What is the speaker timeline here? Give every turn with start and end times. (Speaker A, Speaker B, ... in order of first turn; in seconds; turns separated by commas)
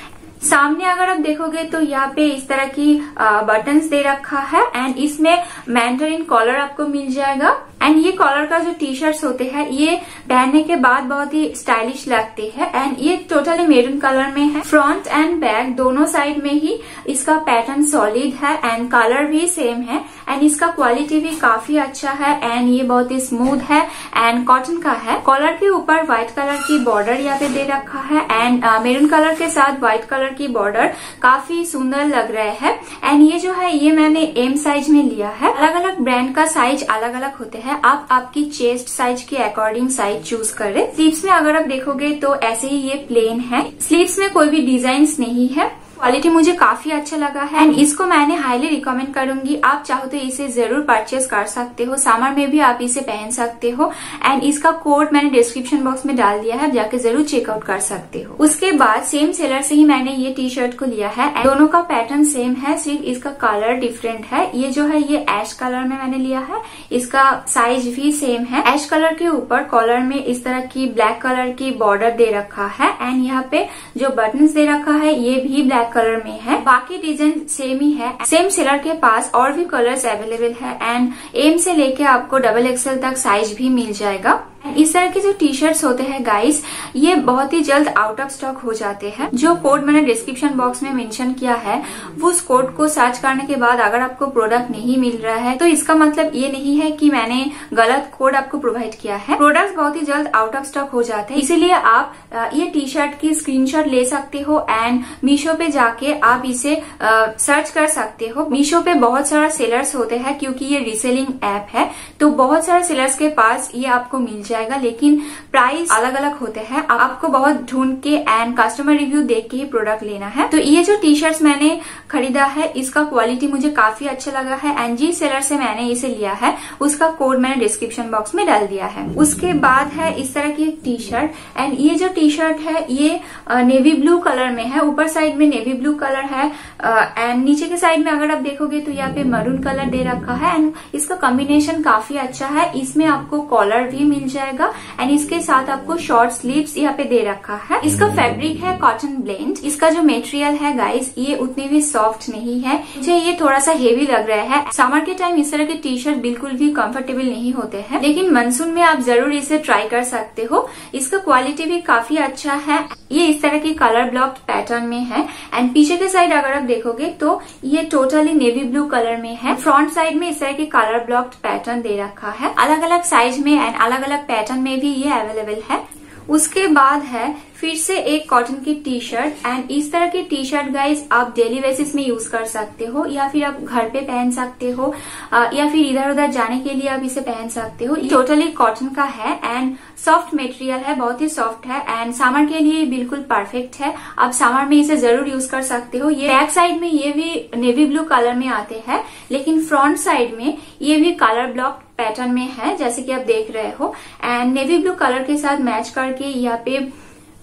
Speaker A: 0.4-206.9